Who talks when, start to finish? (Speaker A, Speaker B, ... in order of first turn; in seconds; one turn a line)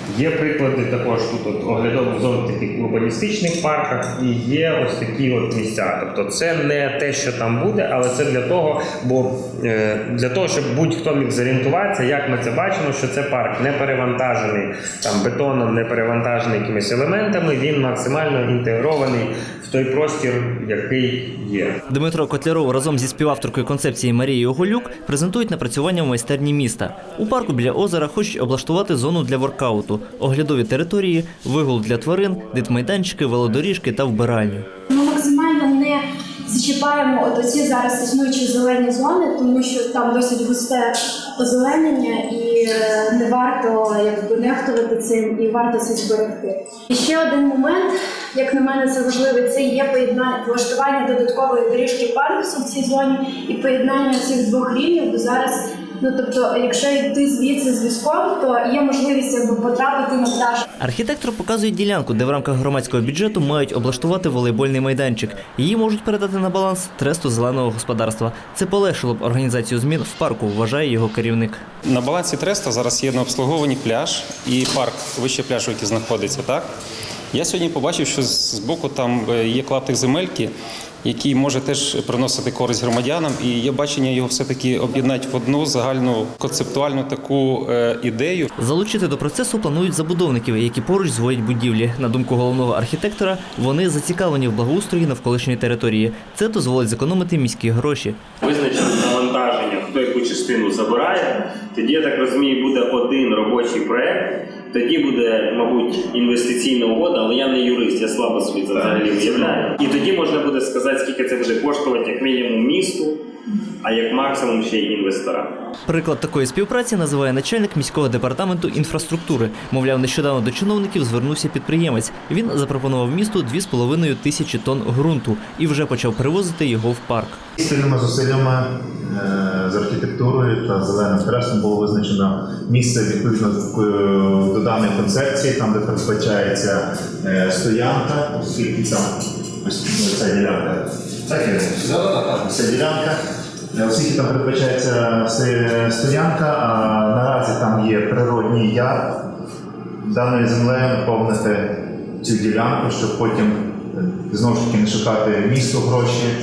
Speaker A: 0.1-21.8
Speaker B: 21.9-34.6
Speaker C: 34.9-60.6
Speaker B: 60.8-71.6
Speaker D: 71.9-76.7
Speaker D: 77.3-80.5
Speaker D: 81.0-88.5
Speaker B: 88.6-98.2
Speaker A: 98.4-113.2
Speaker A: 113.8-115.5
Speaker B: 115.9-127.4
Speaker E: 127.6-143.2
Speaker E: 143.7-149.1
Speaker E: 150.0-151.7
Speaker E: 152.2-156.3